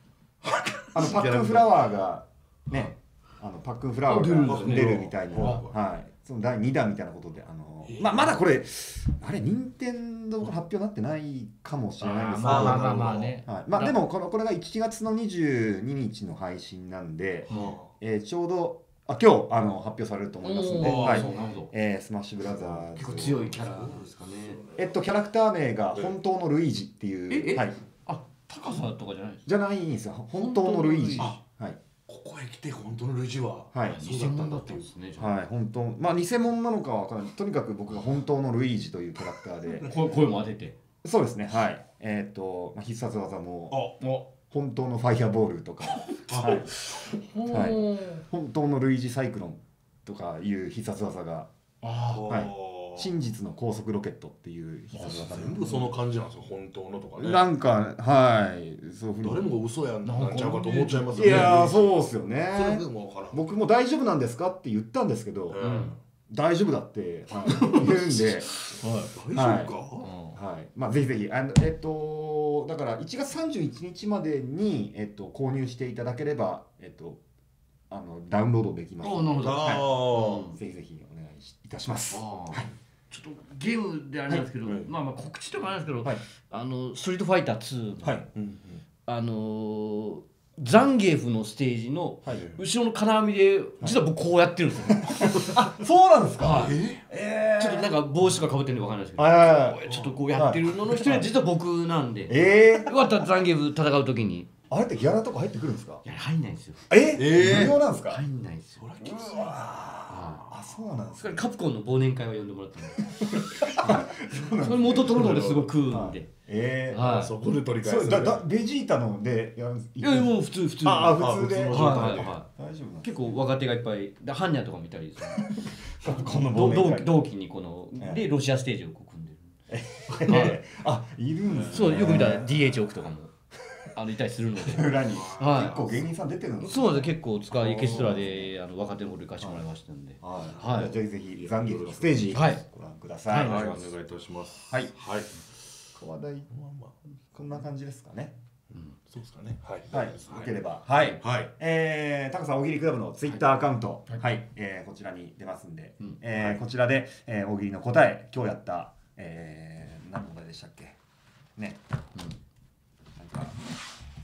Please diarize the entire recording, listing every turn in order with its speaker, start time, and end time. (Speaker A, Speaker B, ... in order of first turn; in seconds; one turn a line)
Speaker A: 0.4-1.9
Speaker B: 0.9-23.6
Speaker C: 4.1-5.7
Speaker A: 4.4-5.8
Speaker A: 7.8-8.4
Speaker C: 12.0-13.9
Speaker A: 12.4-13.4
Speaker C: 17.5-17.8
Speaker A: 17.5-17.9
Speaker C: 20.4-21.7
Speaker A: 20.7-21.5
Speaker C: 22.9-24.6
Speaker A: 23.5-25.0
Speaker B: 24.8-27.8
Speaker C: 27.3-29.4
Speaker B: 29.4-31.8
Speaker C: 30.3-31.4
Speaker A: 32.1-34.9
Speaker B: 33.7-34.0
Speaker C: 33.9-35.4
Speaker B: 35.2-39.9
Speaker C: 39.6-40.8
Speaker B: 41.0-43.8
Speaker A: 43.7-44.2
Speaker B: 44.5-46.7
Speaker A: 46.2-47.1
Speaker C: 47.2-48.2
Speaker B: 47.5-51.5
Speaker C: 51.8-52.2
Speaker A: 52.1-53.1
Speaker B: 52.3-55.9
Speaker A: 54.9-57.5
Speaker C: 55.6-55.9
Speaker B: 57.2-59.5
Speaker A: 59.2-61.9
Speaker C: 60.0-61.6
Speaker B: 61.1-65.6
Speaker A: 62.5-63.4
Speaker A: 65.5-66.0
Speaker C: 65.6-65.9
Speaker B: 66.3-68.5
Speaker C: 67.5-69.1
Speaker A: 69.2-70.1
Speaker B: 69.3-69.7
Speaker C: 70.0-70.4
Speaker B: 70.3-77.2
Speaker B: 77.9-82.7
Speaker C: 79.0-80.6
Speaker A: 79.4-80.5
Speaker C: 82.1-88.2
Speaker B: 88.0-88.3
Speaker A: 88.3-88.8
Speaker C: 89.0-95.5
Speaker A: 92.3-92.6
Speaker B: 94.8-97.9
Speaker C: 96.4-96.8
Speaker A: 96.4-97.0
Speaker C: 97.6-104.5
Speaker B: 99.2-99.8
Speaker A: 99.9-100.1
Speaker B: 100.3-101.3
Speaker B: 102.3-103.2
Speaker B: 104.7-106.0
Speaker C: 106.0-106.8
Speaker B: 106.9-108.2
Speaker A: 107.2-107.8
Speaker C: 108.0-108.8
Speaker A: 108.8-109.9
Speaker B: 109.0-111.4
Speaker C: 110.1-110.4
Speaker C: 111.2-113.7
Speaker B: 113.2-117.1
Speaker C: 114.6-116.3
Speaker A: 115.1-115.7
Speaker C: 116.9-117.3
Speaker A: 117.0-118.4
Speaker B: 117.8-123.4
Speaker C: 120.0-122.5
Speaker A: 121.2-122.4
Speaker C: 123.0-129.5
Speaker B: 126.0-127.2
Speaker B: 128.0-128.2
Speaker B: 129.7-132.8
Speaker C: 130.3-130.6
Speaker A: 131.4-132.0
Speaker C: 131.7-133.3
Speaker C: 133.9-135.8
Speaker B: 134.6-138.5
Speaker A: 134.9-136.0
Speaker C: 136.6-140.9
Speaker B: 139.4-139.6
Speaker B: 140.2-143.6
Speaker A: 140.5-142.5
Speaker C: 142.3-142.6
Speaker C: 143.3-143.9
Speaker A: 143.4-145.4
Speaker B: 145.9-146.5
Speaker A: 146.5-146.9
Speaker B: 147.3-148.3
Speaker A: 149.1-150.5
Speaker B: 149.9-161.0
Speaker A: 151.2-151.5
Speaker C: 156.0-156.5
Speaker B: 163.2-163.5